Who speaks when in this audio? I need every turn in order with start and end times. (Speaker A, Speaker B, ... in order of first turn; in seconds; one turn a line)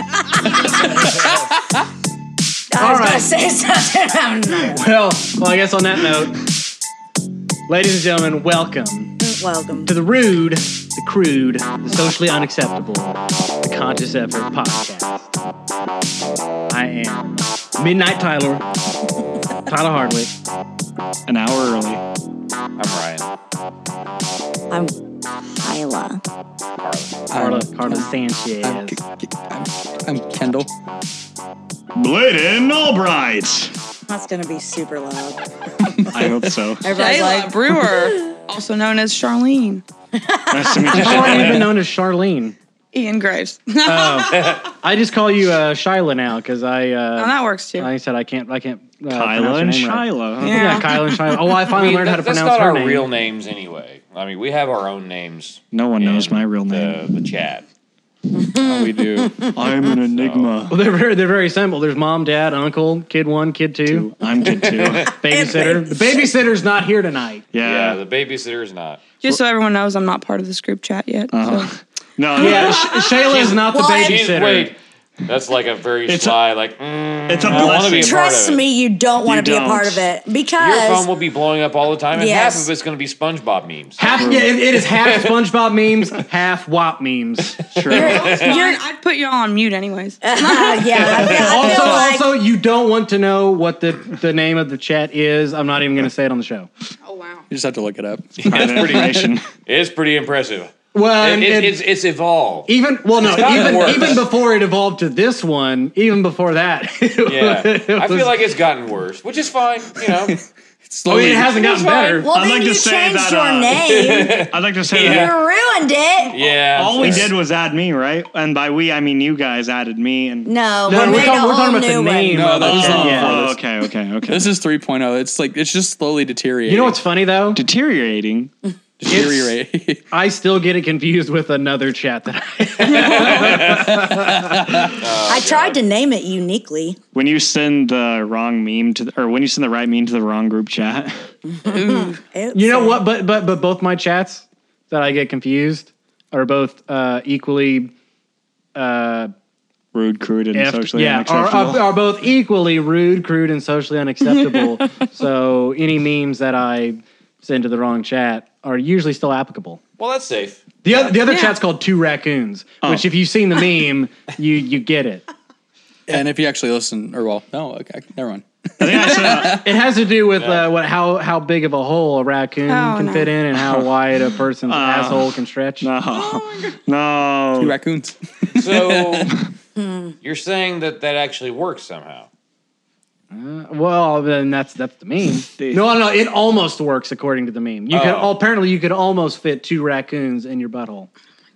Speaker A: 2.7-4.8
Speaker B: 2.8-3.3
Speaker B: 4.6-6.4
Speaker B: 7.7-9.2
Speaker A: 9.2-9.9
Speaker B: 9.9-15.3
Speaker B: 16.7-18.6
Speaker B: 19.7-20.3
Speaker C: 21.3-22.0
Speaker D: 22.8-23.3
Speaker A: 25.6-26.2
Speaker D: 26.8-27.2
Speaker E: 27.3-28.1
Speaker B: 27.3-29.0
Speaker E: 28.6-30.7
Speaker C: 32.0-33.7
Speaker A: 34.1-35.4
Speaker C: 36.1-36.9
Speaker A: 36.8-38.3
Speaker F: 36.8-39.8
Speaker A: 40.1-41.2
Speaker C: 40.5-41.7
Speaker B: 40.9-42.6
Speaker D: 41.0-41.7
Speaker F: 42.9-44.5
Speaker B: 43.8-53.1
Speaker D: 44.3-44.6
Speaker F: 47.2-47.9
Speaker C: 49.1-50.8
Speaker F: 50.4-51.4
Speaker D: 51.7-57.6
Speaker C: 55.7-57.0
Speaker A: 58.4-59.5
Speaker E: 58.6-59.5
Speaker C: 59.5-60.8
Speaker D: 60.0-60.5
Speaker B: 60.7-64.1
Speaker C: 63.9-65.1
Speaker D: 64.4-65.0
Speaker A: 65.1-66.3
Speaker B: 65.2-67.5
Speaker C: 67.5-68.0
Speaker D: 67.6-69.0
Speaker F: 69.2-71.7
Speaker C: 71.3-73.6
Speaker B: 72.3-74.7
Speaker A: 72.4-74.3
Speaker D: 74.0-78.6
Speaker C: 76.1-76.3
Speaker C: 77.3-78.2
Speaker A: 77.5-81.1
Speaker C: 79.2-80.0
Speaker D: 80.6-84.2
Speaker A: 82.1-82.7
Speaker B: 84.0-87.6
Speaker C: 84.1-84.5
Speaker C: 87.7-88.4
Speaker D: 87.8-88.7
Speaker A: 87.9-88.8
Speaker F: 87.9-91.2
Speaker A: 90.2-92.4
Speaker D: 90.9-91.6
Speaker B: 91.2-96.7
Speaker C: 91.5-92.0
Speaker F: 97.0-97.5
Speaker E: 97.5-99.1
Speaker D: 98.4-104.2
Speaker C: 98.5-99.5
Speaker B: 100.9-101.8
Speaker B: 102.7-108.3
Speaker D: 107.3-110.4
Speaker E: 110.9-111.4
Speaker B: 111.1-112.3
Speaker A: 111.5-116.4
Speaker C: 112.3-113.9
Speaker D: 113.9-115.4
Speaker C: 114.5-115.3
Speaker D: 116.3-117.4
Speaker C: 116.7-121.4
Speaker A: 120.5-122.5
Speaker B: 120.9-123.4
Speaker E: 122.3-123.7
Speaker C: 122.6-124.5
Speaker E: 124.3-127.0
Speaker B: 126.7-127.6
Speaker C: 127.5-128.5
Speaker E: 129.0-130.0
Speaker B: 129.1-129.5
Speaker B: 130.1-134.9
Speaker D: 132.8-134.0
Speaker E: 133.6-134.9
Speaker D: 134.9-135.8
Speaker A: 135.2-137.0
Speaker C: 137.1-141.2
Speaker A: 141.5-143.0
Speaker F: 141.7-142.2
Speaker B: 142.5-147.9
Speaker B: 148.8-149.3
Speaker C: 149.9-151.8
Speaker B: 150.5-159.8
Speaker D: 160.0-161.2
Speaker B: 160.8-165.3
Speaker F: 161.3-161.6
Speaker E: 166.1-169.6
Speaker C: 168.8-169.6
Speaker B: 169.3-175.9
Speaker D: 170.4-170.7
Speaker F: 172.7-173.3
Speaker C: 174.7-177.8
Speaker F: 176.1-176.8
Speaker E: 177.6-179.3
Speaker D: 178.5-179.3
Speaker D: 180.2-182.3
Speaker B: 183.3-191.1
Speaker C: 185.5-185.9
Speaker D: 187.9-188.3